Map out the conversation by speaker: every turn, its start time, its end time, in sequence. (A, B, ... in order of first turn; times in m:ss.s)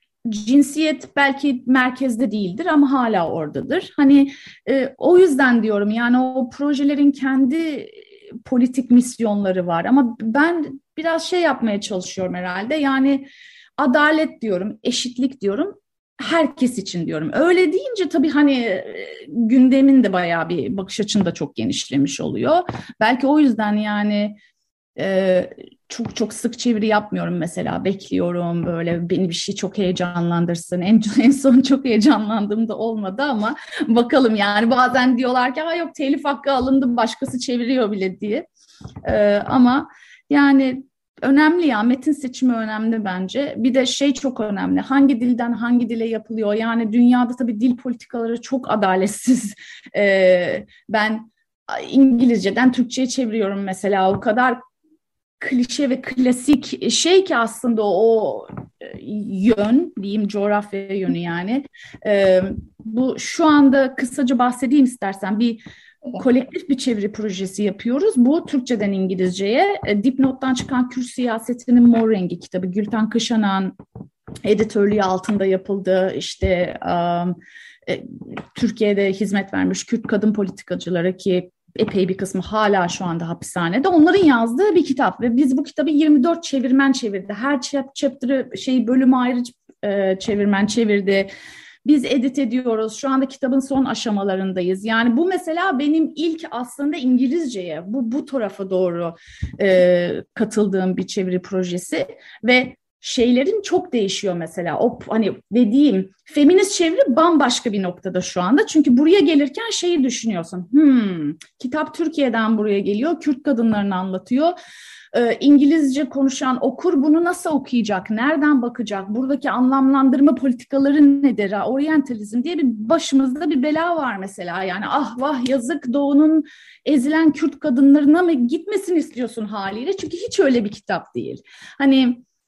0:00.2-0:24.4 A
0:25.0-0:38.4 A
0:39.0-0:54.6 A
0:55.4-1:13.7 A
1:14.4-1:31.3 A
1:31.8-1:54.5 A
1:55.1-2:12.2 A